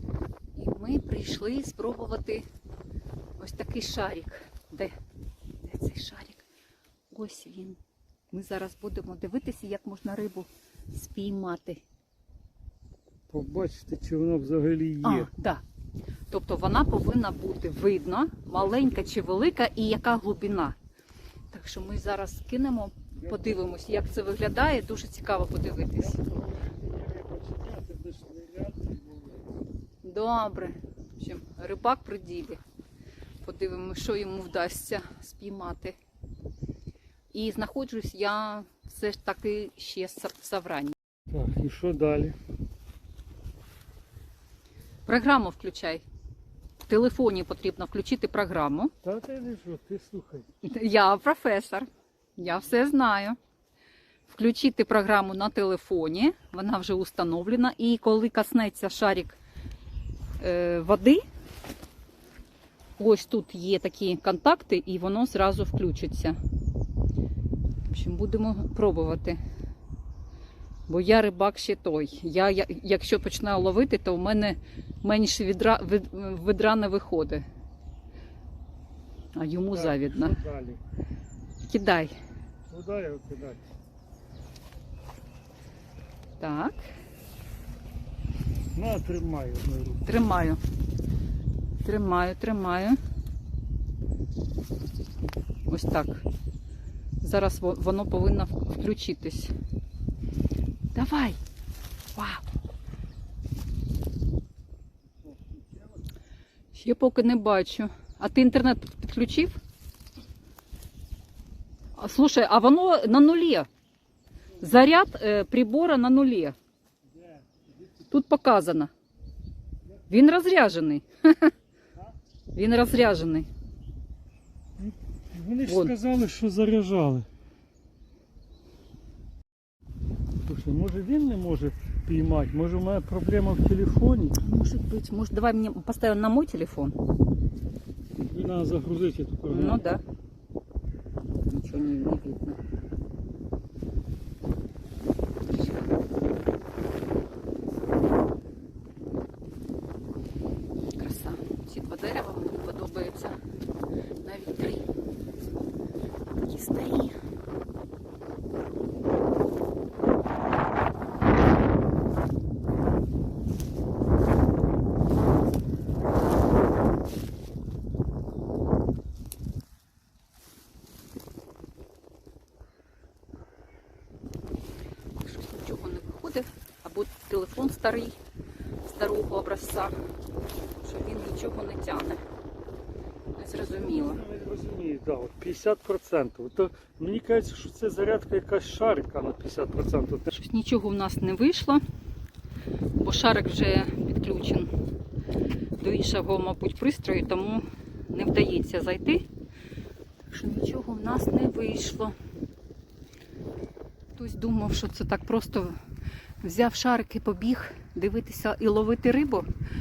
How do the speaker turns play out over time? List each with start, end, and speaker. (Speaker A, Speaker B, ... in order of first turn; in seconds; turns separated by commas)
Speaker A: 0.5-2.5, Speaker A: 3.4-4.9, Speaker A: 5.6-6.4, Speaker A: 7.1-7.8, Speaker A: 8.3-11.8, Speaker B: 13.3-15.3, Speaker A: 15.0-15.6, Speaker A: 16.3-20.8, Speaker A: 21.5-26.2, Speaker B: 26.2-29.3, Speaker A: 30.0-32.6, Speaker A: 33.4-36.0, Speaker A: 37.3-40.9, Speaker B: 41.3-42.4, Speaker A: 45.0-46.0, Speaker A: 46.8-48.9, Speaker B: 49.0-50.5, Speaker A: 50.6-53.4, Speaker A: 54.3-59.4, Speaker A: 60.4-61.2, Speaker A: 63.0-66.4, Speaker A: 67.9-69.4, Speaker A: 70.9-77.4, Speaker A: 79.3-80.4, Speaker B: 79.7-80.8, Speaker A: 81.6-82.1, Speaker B: 82.7-83.6, Speaker A: 86.4-86.8, Speaker B: 88.8-90.0, Speaker A: 90.0-90.6, Speaker A: 91.8-93.0, Speaker A: 95.7-96.2, Speaker A: 97.2-99.5, Speaker A: 100.9-101.4, Speaker A: 102.2-102.4, Speaker A: 106.7-109.6, Speaker A: 112.0-113.7, Speaker A: 114.6-116.5, Speaker A: 118.1-118.9, Speaker A: 120.1-121.5, Speaker A: 122.5-123.5, Speaker B: 124.8-127.3, Speaker A: 125.7-126.0, Speaker B: 130.5-134.3, Speaker A: 134.4-137.0, Speaker B: 138.3-139.8, Speaker A: 139.5-140.0, Speaker A: 141.5-142.6, Speaker A: 150.9-153.4, Speaker A: 154.2-154.9, Speaker A: 156.3-157.2, Speaker A: 175.2-178.2, Speaker A: 178.8-179.9, Speaker A: 180.8-182.2, Speaker A: 183.4-184.2, Speaker B: 183.8-190.3, Speaker A: 190.3-191.8, Speaker A: 193.0-194.7, Speaker A: 195.8-199.2, Speaker A: 200.3-202.2, Speaker A: 204.2-205.8, Speaker A: 206.4-209.5